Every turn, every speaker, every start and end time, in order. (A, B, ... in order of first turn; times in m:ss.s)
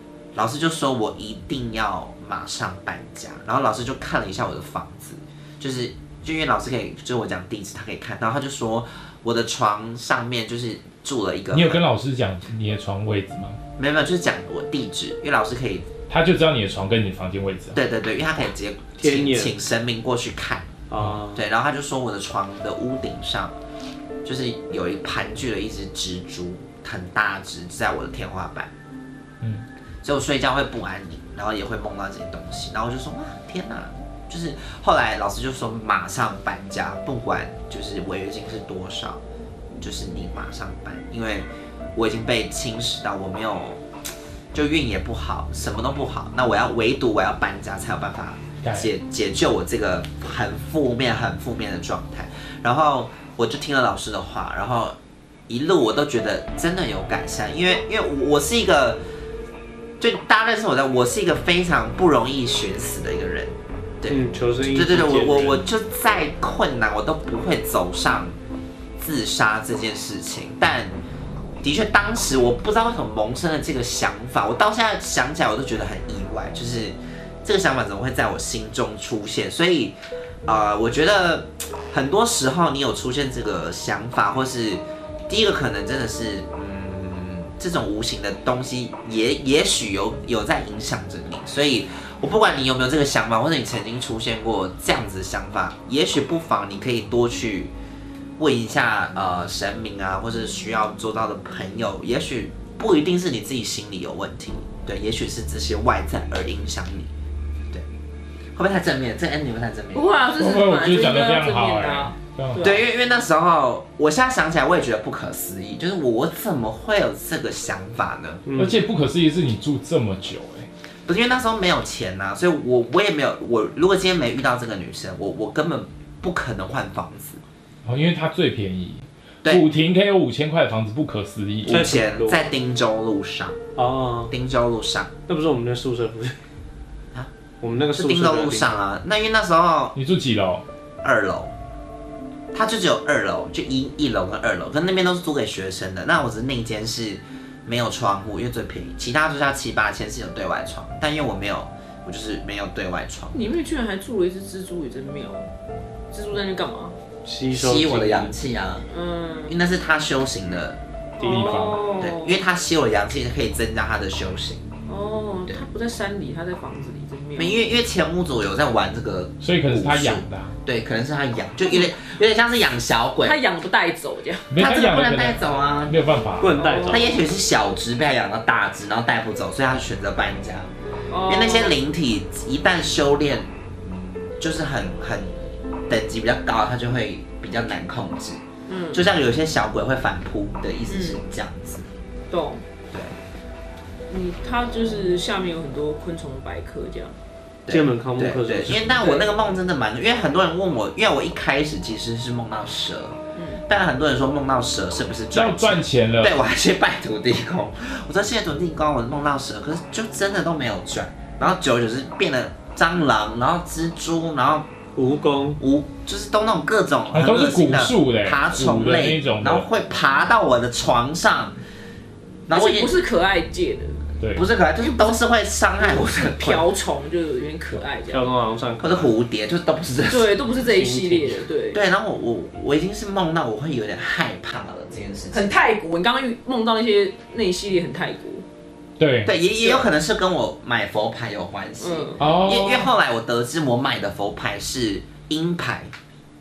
0:00.3-0:11.8 A
0:11.5-0:13.6 B
0:13.8-0:15.8 A
0:16.1-0:17.8 B
0:17.7-0:20.7 A
0:19.0-0:19.5 C
0:20.9-0:21.4 C
0:21.4-0:23.6 A
0:24.2-0:28.7 A
0:30.0-0:39.2 A
0:39.8-0:43.8 A
0:44.5-0:54.9 A
0:48.6-0:48.9 B
0:55.5-0:59.0 A
1:00.0-1:08.3 A
1:04.1-1:05.6 C
1:09.0-1:10.9 A
1:11.6-1:37.7 A
1:38.4-1:47.1 A
1:48.5-1:50.0 A
1:49.9-1:52.8 D
1:50.4-1:52.7 B
1:52.6-1:58.4 A
1:58.4-1:58.8 C
1:58.6-2:00.7 B
2:01.1-2:07.4 A
2:07.8-2:11.8 B
2:09.4-2:09.7 A
2:11.6-2:13.6 A
2:11.7-2:12.5 C
2:13.8-2:14.3 C
2:14.3-2:15.1 A
2:15.3-2:16.4 C
2:17.6-2:18.8 C
2:17.9-2:20.0 A
2:19.9-2:20.6 B
2:21.0-2:21.5 A
2:22.5-2:33.5 A
2:33.3-2:35.5 D
2:36.1-2:37.0 D
2:37.2-2:38.3 C
2:37.5-2:38.9 A
2:38.9-2:39.5 D
2:39.5-2:40.8 A
2:41.2-2:42.4 D
2:41.2-2:41.7 C
2:41.2-2:41.8 B
2:42.0-2:44.6 A
2:44.9-2:47.7 D
2:47.4-2:53.4 A
2:49.4-2:50.5 B
2:53.2-2:54.5 D
2:54.5-2:56.6 B
2:54.6-2:56.0 A
2:56.4-2:57.0 C
2:56.5-2:57.2 D
2:56.9-3:00.7 A
3:01.1-3:01.8 D
3:01.2-3:03.5 A
3:04.4-3:08.4 A
3:08.7-3:09.0 D
3:08.9-3:11.9 A
3:10.9-3:11.2 D
3:12.3-3:12.6 D
3:14.1-3:17.1 D
3:17.6-3:34.7 A
3:17.7-3:18.9 C
3:18.9-3:19.3 D
3:23.3-3:23.6 D
3:25.3-3:26.4 B
3:35.0-3:35.6 C
3:35.6-3:41.6 A
3:37.1-3:39.6 B
3:42.5-3:43.0 A
3:42.5-3:44.0 D
3:44.2-3:44.4 B
3:44.4-3:46.6 A
3:44.8-3:45.2 D
3:45.8-3:48.3 D
3:48.1-3:49.1 C
3:48.8-3:50.3 A
3:50.1-3:51.8 D
3:50.6-3:51.4 C
3:51.7-3:55.5 A
3:55.3-3:58.4 D
3:59.0-3:59.3 B
3:59.2-4:05.9 A
3:59.6-3:59.9 D
4:01.8-4:02.4 D
4:02.2-4:02.8 B